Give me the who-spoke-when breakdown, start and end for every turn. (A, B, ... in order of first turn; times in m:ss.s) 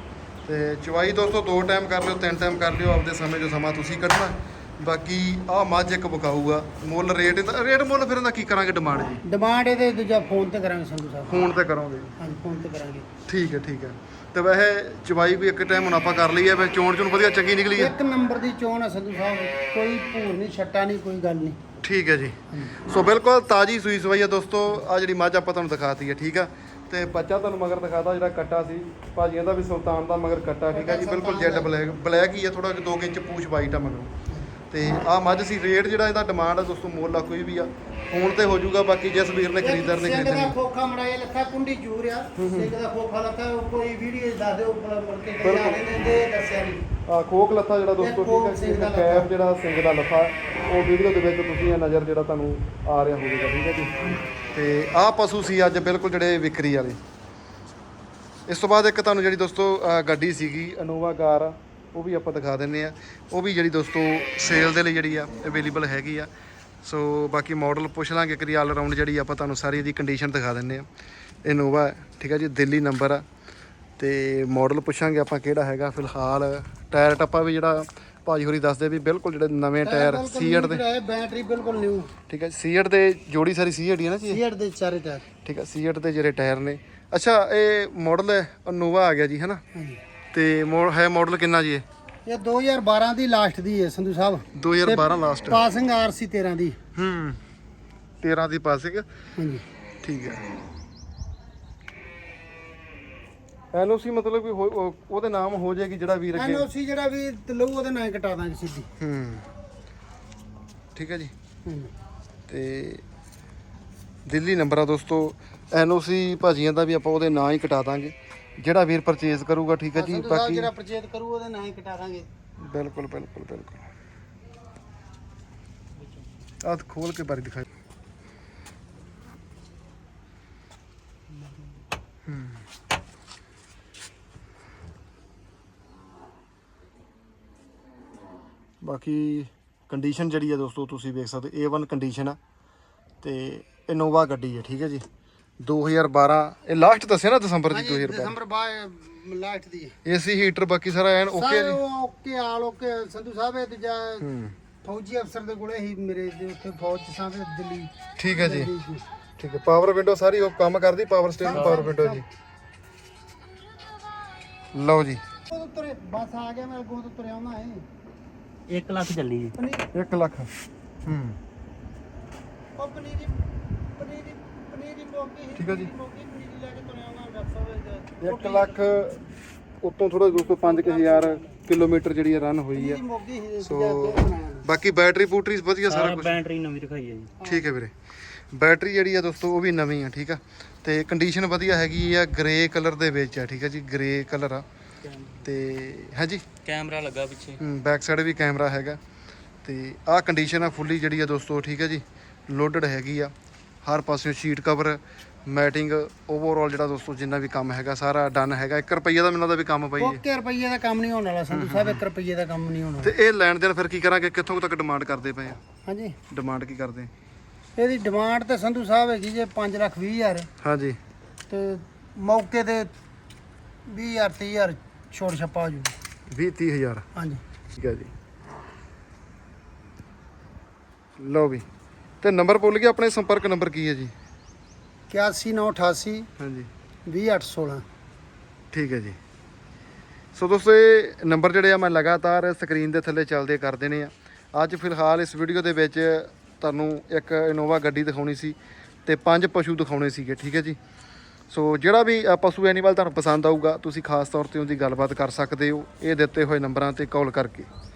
0:00.4-0:09.2 A
0:09.2-0:11.4 B
0:11.3-0:12.1 A
0:12.2-0:13.1 B
0:13.3-0:17.9 A
0:17.8-0:21.6 B
0:21.8-0:34.1 A
0:30.7-0:31.8 B
0:34.7-0:40.6 A
0:39.6-0:46.8 B
0:42.4-0:42.7 A
0:45.4-0:45.8 A
0:47.1-0:57.0 A
0:48.0-0:49.3 B
0:58.5-1:06.3 A
1:06.8-1:10.9 A
1:11.4-1:13.2 A
1:14.0-1:20.8 A
1:19.8-1:22.1 B
1:22.3-1:24.4 A
1:24.3-1:25.3 B
1:25.4-1:29.6 A
1:29.7-1:30.0 B
1:30.3-1:31.8 A
1:32.3-1:36.8 B
1:34.5-1:35.6 A
1:37.0-1:37.4 A
1:38.2-1:39.1 A
1:39.4-1:39.6 B
1:40.0-1:40.4 A
1:43.7-1:46.7 A
1:46.3-1:48.9 B
1:49.0-1:49.5 A
1:51.0-1:51.3 A
1:51.7-1:51.9 B
1:52.5-1:53.0 A
1:54.3-2:00.7 A
1:59.9-2:02.3 B
2:02.6-2:03.9 A
2:06.6-2:07.7 A
2:12.3-2:12.6 A
2:18.8-2:22.4 A
2:23.2-2:25.0 A
2:25.6-2:28.4 A
2:27.7-2:30.0 B
2:30.0-2:31.8 A
2:31.3-2:34.3 B
2:34.2-2:34.6 A
2:34.8-2:39.0 B
2:38.2-2:38.7 A
2:39.4-2:42.2 A
2:41.4-2:42.3 B
2:41.5-2:41.9 C
2:44.7-2:45.2 A
2:45.5-2:47.9 B
2:48.7-2:49.6 C
2:49.6-2:49.9 B
2:49.9-2:50.5 A
2:51.0-2:51.4 A
2:52.8-2:53.4 B
2:54.0-2:59.0 B
2:55.6-2:55.9 A
2:58.2-2:59.2 A
2:59.8-3:03.0 A
3:00.3-3:01.6 B
3:02.8-3:04.7 B
3:03.6-3:06.4 A
3:05.9-3:07.4 C
3:07.4-3:07.7 B
3:07.4-3:14.6 A
3:15.0-3:15.4 C
3:15.4-3:16.5 A
3:16.6-3:17.6 C
3:17.6-3:19.0 A
3:19.6-3:23.3 A
3:23.8-3:30.2 A
3:30.0-3:33.1 B
3:31.5-3:32.0 A
3:33.0-3:35.6 A
3:35.9-3:36.2 B
3:36.3-3:37.1 A
3:37.8-3:40.5 B
3:40.6-3:41.0 A
3:41.5-3:42.9 B
3:43.9-3:45.9 B
3:46.3-3:47.0 A
3:47.2-3:47.4 B
3:47.8-3:48.1 A
3:51.2-3:51.6 A
3:52.2-3:54.1 A
3:55.1-3:56.3 B
3:56.4-3:56.7 A
3:57.1-3:57.8 B
3:58.7-3:59.2 A
4:00.4-4:10.8 A
4:11.5-4:17.7 A